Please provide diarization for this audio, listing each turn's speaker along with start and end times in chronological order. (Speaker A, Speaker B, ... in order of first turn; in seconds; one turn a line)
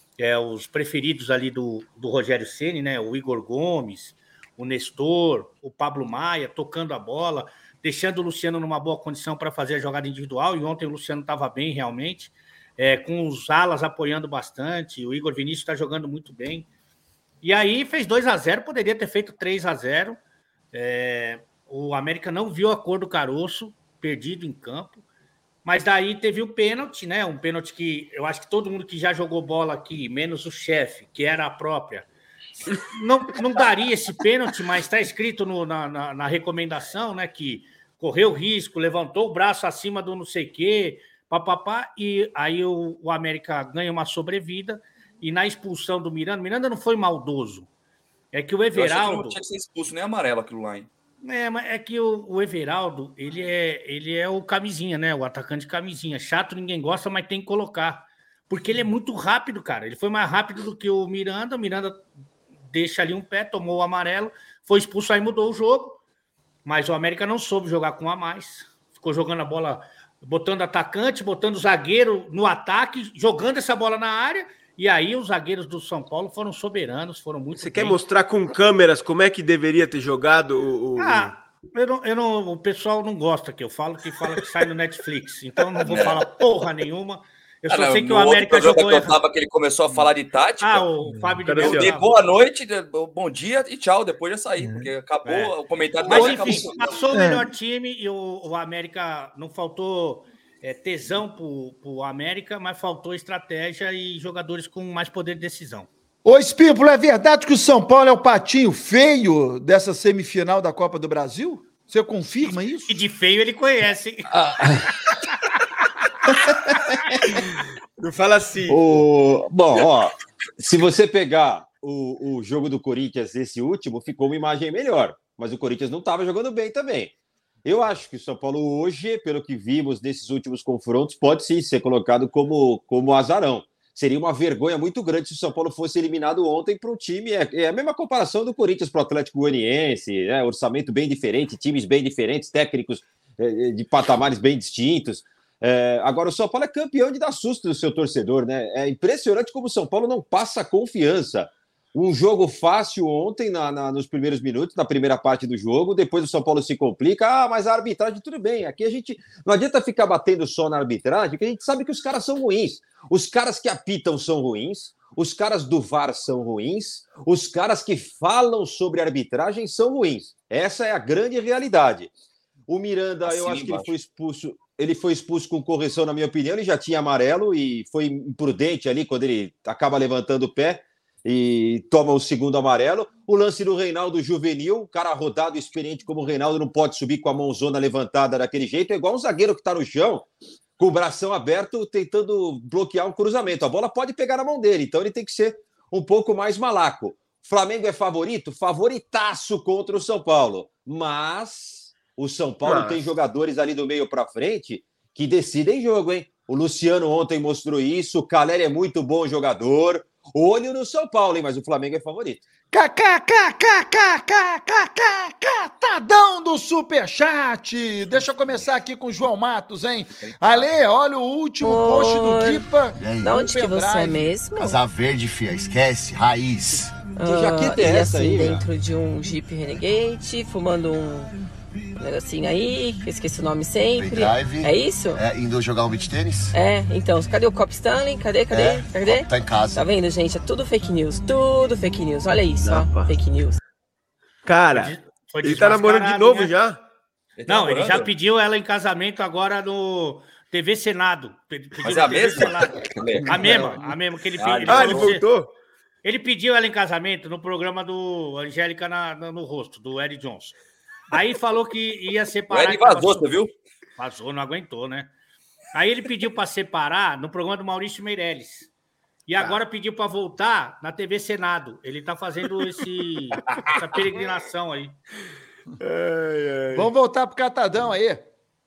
Speaker A: 0.2-16.7
Speaker A: 17.4-20.2
Speaker A: 20.7-25.0
Speaker A: 25.6-32.0
Speaker A: 32.6-47.7
Speaker A: 48.3-49.4
Speaker B: 48.7-50.9
Speaker A: 51.2-62.0
Speaker A: 62.7-66.0
Speaker A: 66.6-78.0
Speaker C: 77.5-81.3
Speaker A: 81.0-89.2
Speaker B: 85.8-86.2
Speaker B: 87.7-90.9
Speaker A: 90.6-92.1
Speaker C: 91.4-91.9
Speaker B: 91.6-97.1
Speaker D: 94.6-94.9
Speaker A: 95.2-105.9
Speaker D: 96.1-97.5
Speaker D: 106.2-113.0
Speaker A: 112.9-114.7
Speaker C: 118.0-119.0
Speaker E: 118.7-127.1
Speaker E: 127.6-172.1
Speaker E: 172.7-212.4
Speaker B: 173.2-173.9
Speaker C: 202.6-203.0
Speaker D: 212.7-224.3
Speaker B: 220.2-220.7
Speaker F: 221.6-222.6
Speaker G: 223.0-223.4
Speaker F: 223.2-224.8
Speaker G: 224.5-227.0
Speaker F: 227.1-231.3
Speaker E: 227.2-228.7
Speaker F: 232.0-235.2
Speaker G: 233.9-236.5
Speaker F: 236.5-243.6
Speaker G: 238.5-239.9
Speaker C: 242.6-243.1
Speaker C: 244.4-246.8
Speaker A: 244.7-246.5
Speaker B: 247.4-248.1
Speaker A: 247.5-255.2
Speaker B: 251.8-253.8
Speaker D: 253.3-253.7
Speaker B: 254.4-255.1
Speaker C: 254.7-255.5
Speaker A: 256.0-260.6
Speaker A: 261.1-263.4
Speaker B: 262.5-263.5
Speaker A: 264.0-265.1
Speaker A: 265.7-268.7
Speaker A: 269.3-274.9
Speaker C: 275.8-276.9
Speaker D: 276.7-278.3